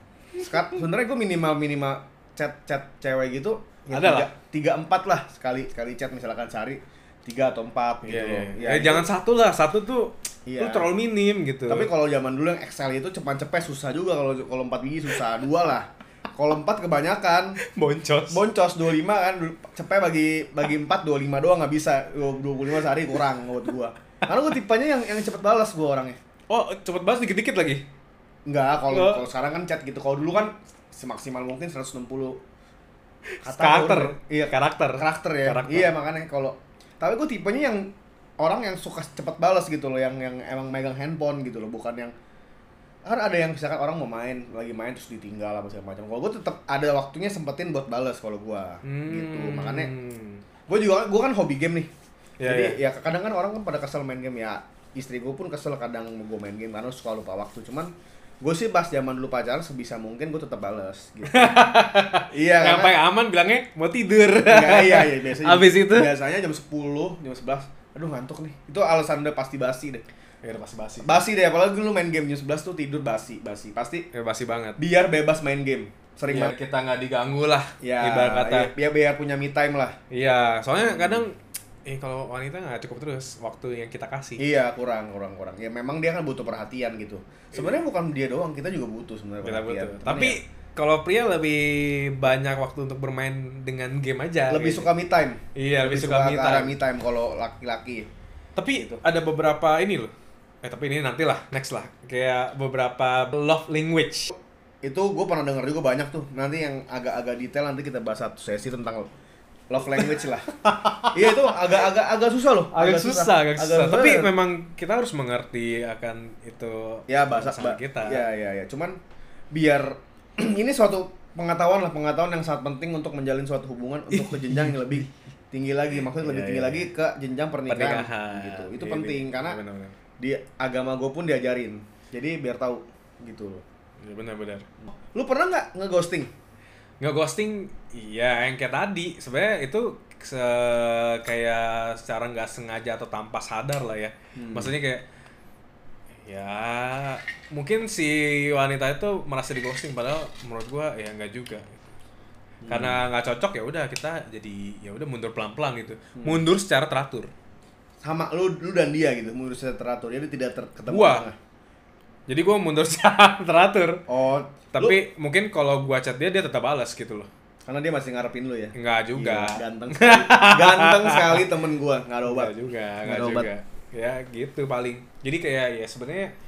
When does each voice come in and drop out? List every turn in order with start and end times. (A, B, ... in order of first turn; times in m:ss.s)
0:00.4-0:09.1 A
0:03.9-0:04.3 B
0:08.0-0:11.9 B
0:10.4-0:10.9 A
0:11.7-0:17.6 A
0:17.6-0:18.4 B
0:18.3-0:26.2 A
0:26.5-0:27.8 B
0:28.4-0:32.4 A
0:28.9-0:29.2 B
0:33.4-0:35.9 B
0:33.4-0:42.1 A
0:43.0-0:49.9 A
0:48.8-0:50.4 B
0:50.7-0:51.9 A
0:52.4-0:52.8 B
0:52.4-1:01.6 A
1:01.3-1:06.1 B
1:02.3-1:03.0 A
1:04.4-1:10.0 A
1:10.4-1:11.2 B
1:11.0-1:14.1 A
1:14.1-1:14.8 B
1:14.8-1:16.5 A
1:16.3-1:18.7 B
1:17.8-1:20.0 A
1:20.1-1:24.4 B
1:20.7-1:21.2 A
1:24.4-1:30.4 A
1:27.5-1:27.8 B
1:29.4-1:34.9 B
1:34.5-1:38.1 A
1:35.5-1:36.8 B
1:38.6-1:40.1 B
1:38.7-1:39.0 A
1:40.6-1:44.3 B
1:44.8-1:49.1 A
1:49.7-1:50.5 A
1:50.6-1:51.6 B
1:51.1-1:54.3 A
1:52.7-1:58.3 B
1:57.1-1:59.0 A
1:59.5-2:09.6 A
2:04.1-2:05.1 B
2:05.9-2:06.9 B
2:07.7-2:10.0 B
2:10.2-2:13.6 A
2:14.0-2:14.7 B
2:15.1-2:16.3 A
2:17.0-2:25.0 B
2:24.4-2:24.7 A
2:26.2-2:31.7 B
2:32.6-2:33.0 A
2:32.7-2:37.3 B
2:36.2-2:36.4 A
2:38.0-2:41.4 A
2:40.8-2:41.3 B
2:42.3-2:44.0 B
2:44.1-2:45.0 A
2:44.7-2:47.3 B
2:47.6-2:53.5 A
2:48.7-2:51.5 B
2:52.2-2:56.3 B